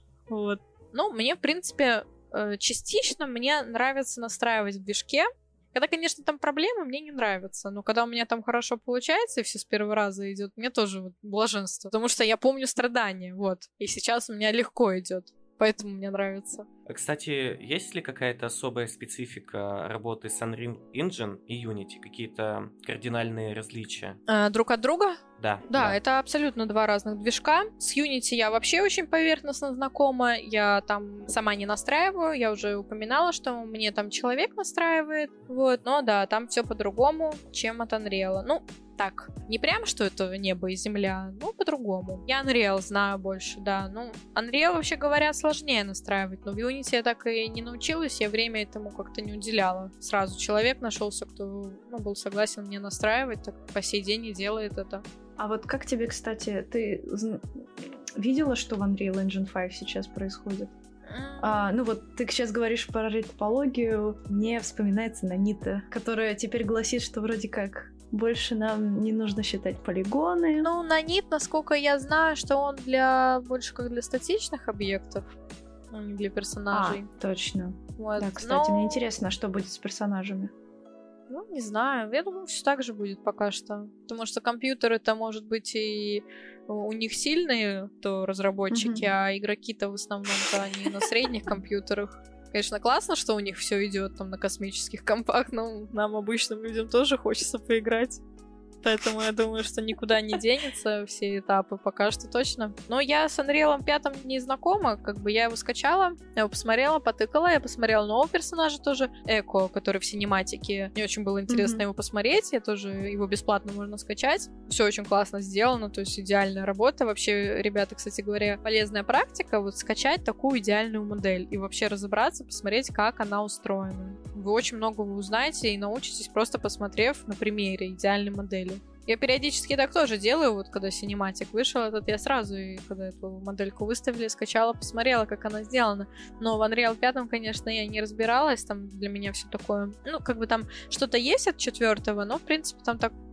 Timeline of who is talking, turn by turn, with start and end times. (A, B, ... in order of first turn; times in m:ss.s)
0:00.3-0:16.7 A
0:16.9-0:24.2 B
0:24.3-0:55.0 A
0:25.4-0:26.0 B
0:55.4-1:00.8 C
1:01.1-1:01.7 A
1:01.4-1:10.7 C
1:10.6-1:15.2 A
1:15.9-1:17.1 A
1:16.7-1:20.5 C
1:18.0-1:19.0 A
1:21.3-1:38.2 A
1:28.7-1:29.1 C
1:38.8-2:23.1 A
1:51.5-1:51.8 C